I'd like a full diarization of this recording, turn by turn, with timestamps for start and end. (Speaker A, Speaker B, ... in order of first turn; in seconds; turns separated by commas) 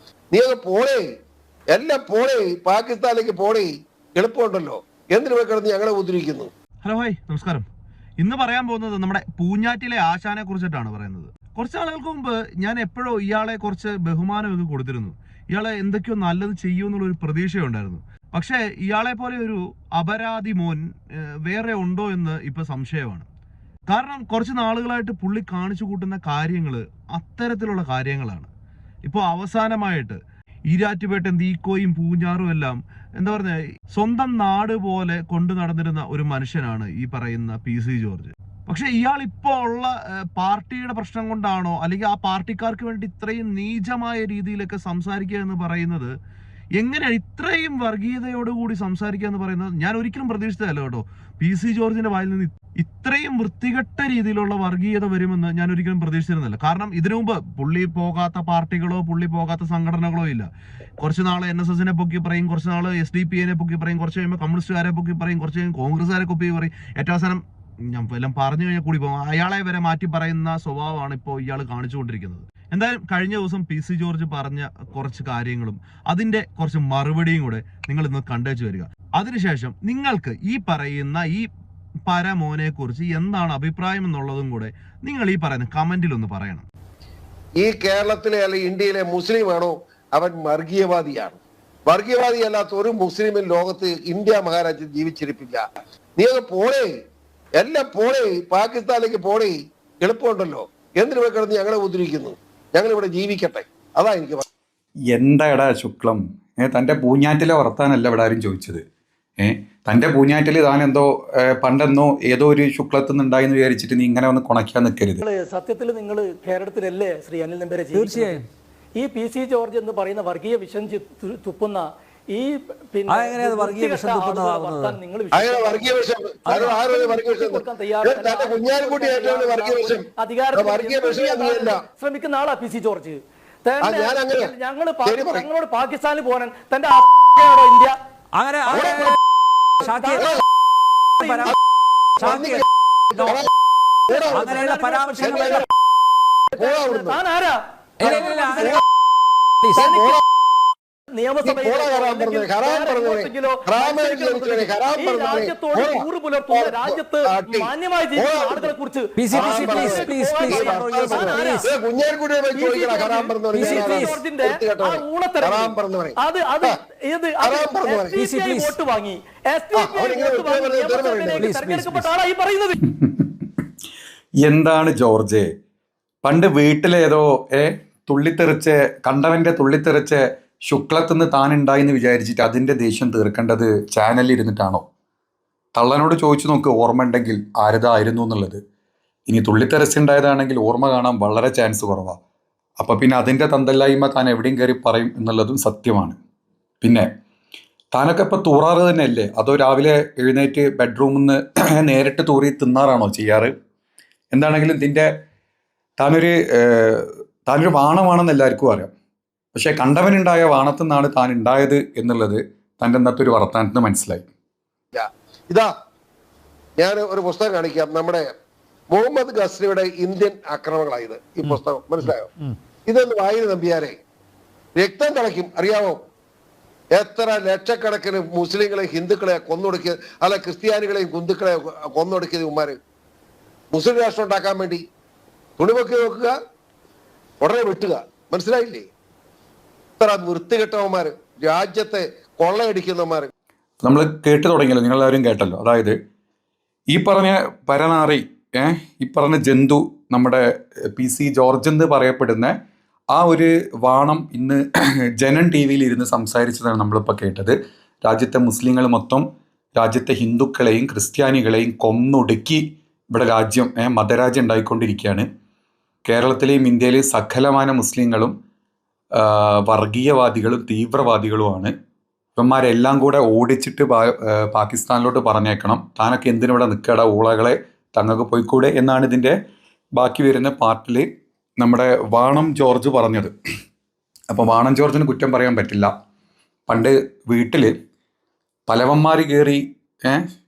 Speaker A: 0.3-1.1, Speaker A: 1.7-6.5, Speaker B: 6.8-7.7, Speaker B: 8.2-23.3, Speaker B: 23.9-28.5, Speaker B: 29.0-46.1, Speaker B: 46.8-81.5, Speaker B: 82.1-86.6, Speaker A: 87.6-95.6, Speaker A: 96.2-96.9, Speaker A: 97.6-104.4, Speaker C: 105.1-108.8, Speaker C: 109.4-115.2, Speaker D: 115.2-118.4, Speaker E: 117.9-118.4, Speaker D: 119.0-125.9, Speaker E: 123.1-125.0, Speaker A: 125.3-131.8, Speaker E: 126.5-126.7, Speaker D: 126.5-137.9, Speaker A: 133.8-134.5, Speaker A: 135.0-135.5, Speaker A: 137.3-137.6, Speaker E: 138.3-139.2, Speaker D: 138.7-139.1, Speaker A: 138.7-139.1, Speaker E: 139.8-140.4, Speaker D: 139.8-140.3, Speaker A: 140.1-140.4, Speaker D: 141.2-141.5, Speaker E: 141.2-141.5, Speaker D: 142.2-142.4, Speaker A: 142.2-143.5, Speaker E: 142.2-143.4, Speaker A: 144.1-144.6, Speaker D: 144.1-145.6, Speaker E: 144.3-145.6, Speaker A: 145.2-145.6, Speaker D: 146.5-148.8, Speaker A: 146.6-147.2, Speaker E: 148.0-148.8, Speaker A: 148.0-148.8, Speaker E: 149.6-149.8, Speaker D: 149.7-150.2, Speaker A: 149.8-150.2, Speaker D: 151.1-161.7, Speaker A: 151.4-158.7, Speaker E: 159.2-161.6, Speaker A: 159.3-166.7, Speaker D: 162.5-172.8, Speaker E: 163.5-164.2, Speaker A: 167.4-168.2, Speaker E: 168.1-168.8, Speaker A: 169.8-171.4, Speaker E: 171.4-172.1, Speaker C: 172.8-173.4, Speaker C: 174.4-175.5, Speaker C: 176.2-184.8, Speaker C: 185.7-188.6, Speaker C: 189.3-192.2, Speaker C: 192.8-196.2, Speaker C: 196.8-197.1, Speaker C: 197.9-203.5, Speaker C: 204.3-205.1, Speaker C: 206.0-208.9, Speaker C: 209.5-214.2, Speaker A: 214.9-215.7, Speaker A: 216.8-218.2, Speaker A: 218.9-222.3, Speaker A: 222.9-223.9, Speaker A: 224.8-226.0, Speaker A: 226.9-232.8, Speaker A: 233.7-234.8, Speaker A: 235.6-236.3, Speaker A: 237.4-238.9, Speaker A: 240.0-243.3, Speaker C: 243.8-245.9, Speaker C: 246.9-252.5, Speaker C: 253.1-254.6, Speaker C: 255.2-259.2, Speaker C: 259.8-262.6, Speaker C: 263.1-265.2, Speaker C: 266.1-268.3, Speaker C: 269.1-271.7, Speaker C: 272.4-279.3, Speaker C: 280.0-281.0, Speaker C: 281.6-283.3, Speaker C: 284.3-285.9, Speaker C: 286.7-287.7, Speaker C: 288.7-290.2